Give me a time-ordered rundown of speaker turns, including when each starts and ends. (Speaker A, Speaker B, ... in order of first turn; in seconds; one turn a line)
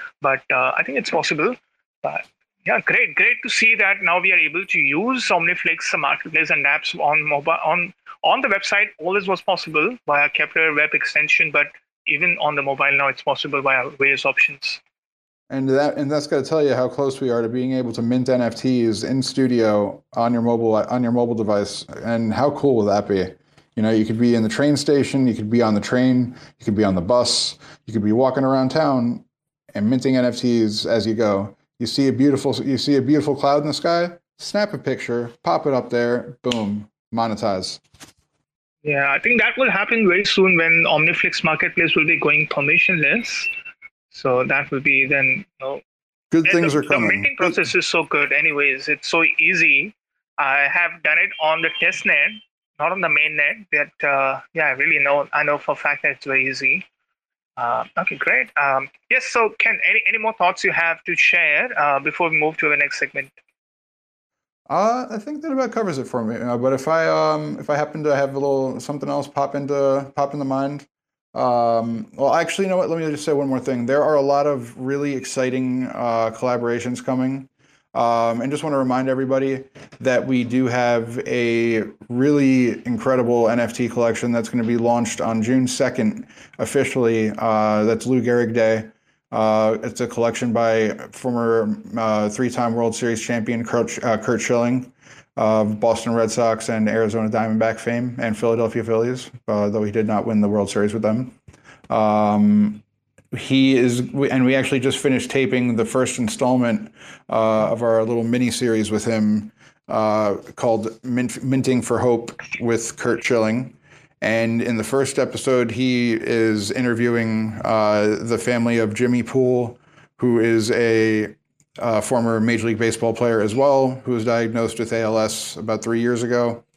Speaker A: 0.2-14.8
Speaker B: 15.5-37.8
Speaker A: 38.8-43.5
Speaker A: 44.1-45.8
Speaker B: 46.3-47.6
Speaker A: 46.4-56.8
Speaker A: 57.6-63.3
Speaker B: 64.7-101.3
Speaker B: 101.9-126.6